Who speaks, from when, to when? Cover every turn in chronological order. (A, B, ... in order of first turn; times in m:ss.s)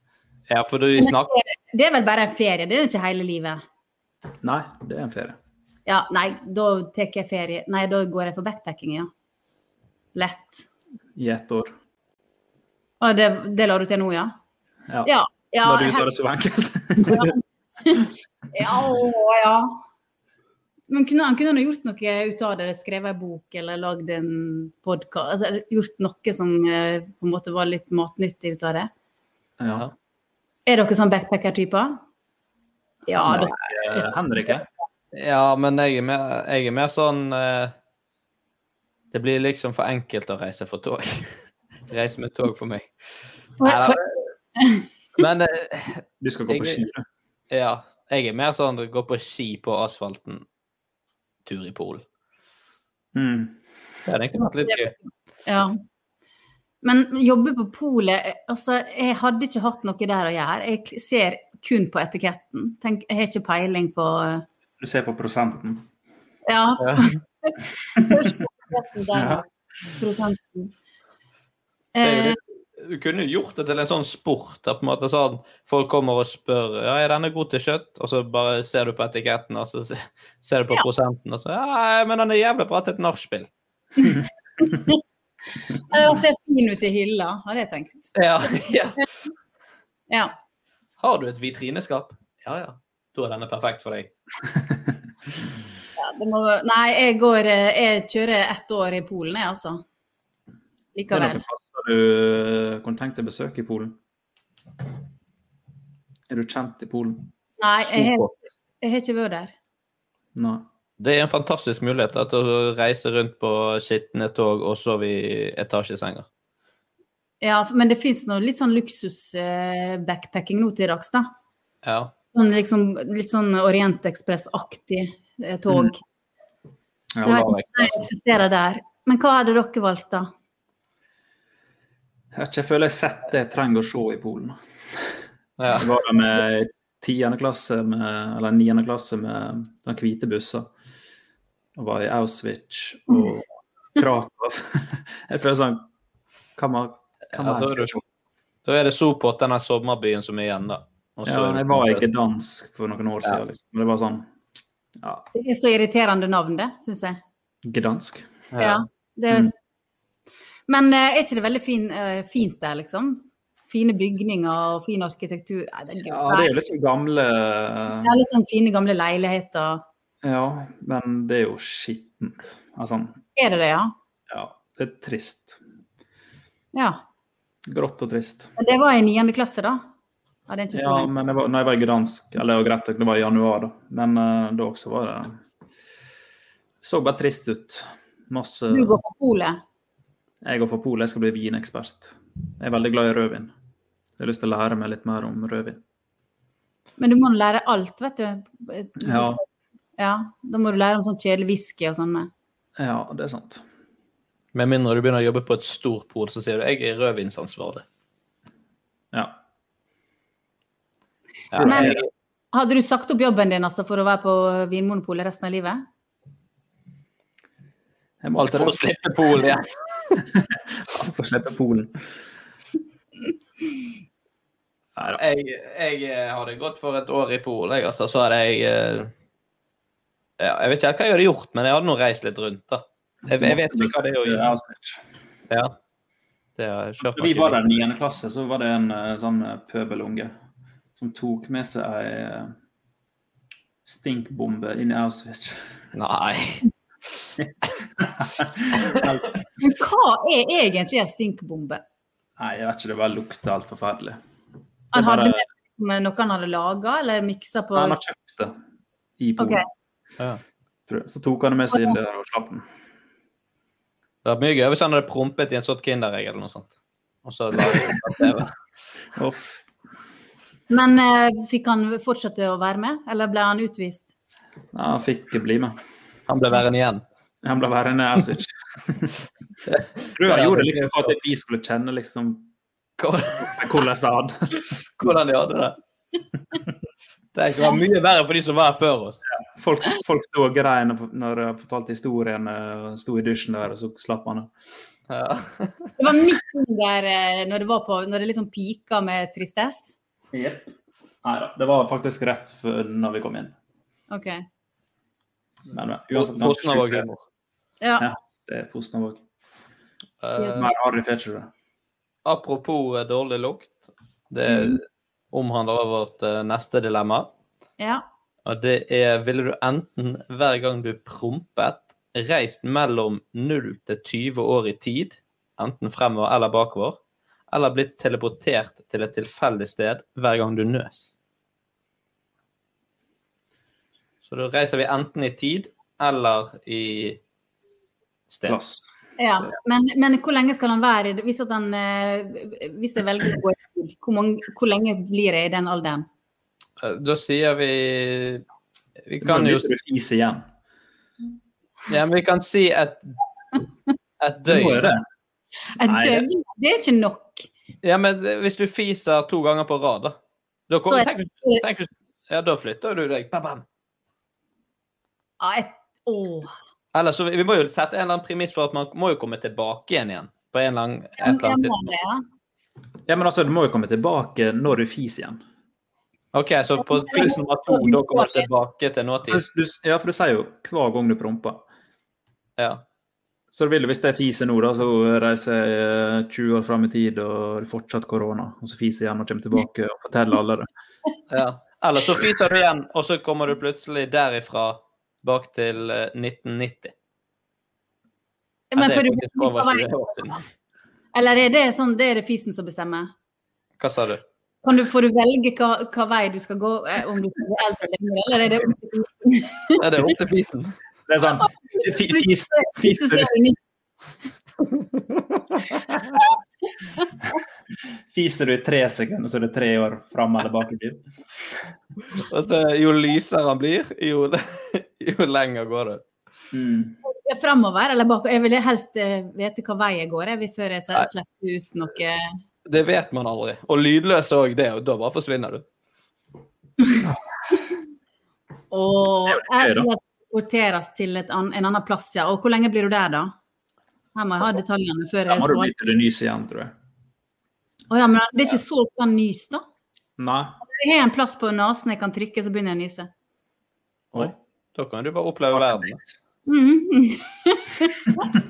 0:00.5-0:01.3 A
0:01.0-0:03.6 B
0:04.4-0:05.4 C
0:05.9-0:09.1 B
0:10.1-0:10.6 B
0:11.2-0:11.7 C
0:13.0-0:14.3 B
0:15.0-0:16.1 B
0:15.6-0:17.3 C
0:17.0-0:19.8 B
0:20.9-0:28.9 B
0:29.6-0:29.9 C
0:30.7-0:32.0 B
0:33.1-0:34.0 B
0:33.2-0:34.7 C
0:35.1-0:37.7 A
0:39.1-0:41.3 A
0:41.9-0:42.9 A
0:43.6-0:44.0 B
0:43.6-0:44.1 A
0:44.6-0:44.9 B
0:45.2-0:46.8 A
0:46.2-0:47.0 C
0:47.5-0:50.4 A
0:51.4-0:52.0 A
0:53.1-0:53.6 C
0:54.1-0:54.9 A
0:55.4-0:55.8 B
0:56.8-1:04.4 B
1:04.8-1:05.9 C
1:06.4-1:09.4 B
1:06.8-1:07.1 A
1:09.1-1:09.4 C
1:10.0-1:10.7 B
1:12.0-1:12.4 B
1:12.0-1:23.5 A
1:24.0-1:25.0 B
1:25.7-1:28.1 B
1:28.1-1:29.0 A
1:31.0-1:34.1 A
1:36.0-1:39.8 B
1:41.0-1:41.4 B
1:41.1-1:44.0 C
1:46.3-1:47.3 C
1:47.6-1:48.3 B
1:48.8-1:49.5 B
1:50.3-1:50.6 C
1:51.0-1:56.3 A
1:57.4-2:01.3 B
2:01.8-2:02.1 A
2:02.3-2:06.0 B
2:07.1-2:08.0 C
2:07.2-2:10.3 B
2:12.3-2:14.6 C
2:15.6-2:15.9 A
2:15.7-2:20.7 C
2:21.8-2:25.9 C
2:26.6-2:28.0 C
2:27.3-2:28.0 A
2:28.6-2:32.1 A
2:31.3-2:34.3 C
2:35.0-2:35.3 C
2:35.3-2:37.2 B
2:37.6-2:38.4 C
2:38.5-2:38.8 A
2:38.6-2:39.6 B
2:40.7-2:46.5 B
2:46.1-2:48.2 C
2:48.0-2:49.8 B
2:50.2-2:53.2 C
2:53.4-2:53.9 B
2:54.3-2:55.6 C
2:56.7-2:57.0 B
2:57.7-2:58.5 C
2:58.6-2:59.8 B
3:00.5-3:01.1 B
3:00.7-3:05.4 C
3:06.8-3:09.0 C
3:08.7-3:09.6 B
3:10.4-3:13.5 C
3:14.2-3:15.8 C
3:17.0-3:19.4 B
3:19.0-3:19.4 C
3:20.0-3:22.3 B
3:22.8-3:23.6 C
3:24.5-3:27.8 A
3:29.1-3:29.4 C
3:31.5-3:32.1 A
3:31.6-3:32.0 C
3:31.6-3:32.0 B
3:32.5-3:35.8 B
3:38.2-3:38.8 C
3:38.4-3:39.6 A
3:40.3-3:42.0 C
3:45.1-3:49.1 A
3:50.4-3:54.5 A
3:53.3-3:55.0 C
3:55.5-3:55.7 A
3:56.6-3:57.6 A
3:57.0-4:00.3 C
4:01.0-4:02.5 C
4:03.9-4:05.6 C
4:05.9-4:06.7 A
4:07.4-4:09.4 C
4:09.6-4:11.8 B
4:12.4-4:14.2 C
4:14.9-4:15.4 C
4:14.9-4:18.0 B
4:17.7-4:18.6 C
4:19.2-4:19.6 C
4:20.9-4:22.6 C
4:24.2-4:26.7 A
4:27.2-4:28.5 A
4:29.2-4:29.6 C
4:30.7-4:34.1 B
4:34.7-4:35.8 C
4:36.3-4:37.0 A
4:37.4-4:39.1 C
4:39.7-4:41.1 A
4:40.1-4:42.5 C
4:43.0-4:43.8 A
4:43.4-4:44.7 C
4:45.0-4:45.8 A
4:47.3-4:49.2 A
4:49.3-4:54.5 C
4:55.1-4:55.9 A
4:56.0-5:00.0 B
5:00.3-5:00.7 C
5:01.2-5:03.5 C
5:04.1-5:04.4 B
5:05.7-5:07.0 C
5:06.1-5:07.2 A
5:07.8-5:08.1 B
5:08.0-5:09.2 C
5:10.2-5:10.7 A
5:10.5-5:11.5 C
5:12.2-5:13.7 A
5:14.3-5:17.3 A
5:14.5-5:14.8 B
5:18.4-5:27.0 A
5:27.5-5:31.1 A
5:34.2-5:37.2 A
5:38.3-5:38.6 A
5:38.5-5:38.9 C
5:39.2-5:46.0 B
5:46.8-5:48.4 A
5:49.1-5:49.7 A
5:49.2-5:50.5 C
5:51.9-5:53.1 A
5:54.2-5:55.0 A
5:54.5-5:55.0 C
5:55.8-5:57.5 B
5:55.8-5:56.3 C
5:57.8-6:00.2 A
6:00.7-6:03.6 A
6:00.8-6:01.6 B
6:05.4-6:06.5 B
6:06.9-6:11.7 A
6:11.2-6:12.2 B
6:13.1-6:15.4 C
6:16.3-6:19.4 A
6:16.8-6:18.5 B
6:19.3-6:21.7 C
6:22.6-6:22.8 A
6:23.5-6:30.7 C
6:31.3-6:36.9 A
6:38.7-6:40.0 B
6:38.8-6:40.4 A
6:41.1-6:43.1 B
6:43.8-6:44.2 A
6:44.6-6:49.8 B
6:49.8-6:50.7 A
6:51.1-6:53.3 C
6:51.4-6:53.6 B
6:58.1-7:01.0 C
7:02.2-7:06.0 A
7:06.5-7:07.0 C
7:07.0-7:12.3 B
7:12.7-7:15.6 A
7:18.7-7:23.3 B
7:19.3-7:19.9 C
7:24.1-7:25.7 B
7:25.3-7:26.7 C
7:27.9-7:29.6 B
7:30.2-7:30.6 C
7:30.6-7:33.1 B
7:34.1-7:36.0 A
7:35.5-7:36.2 C
7:36.5-7:38.2 B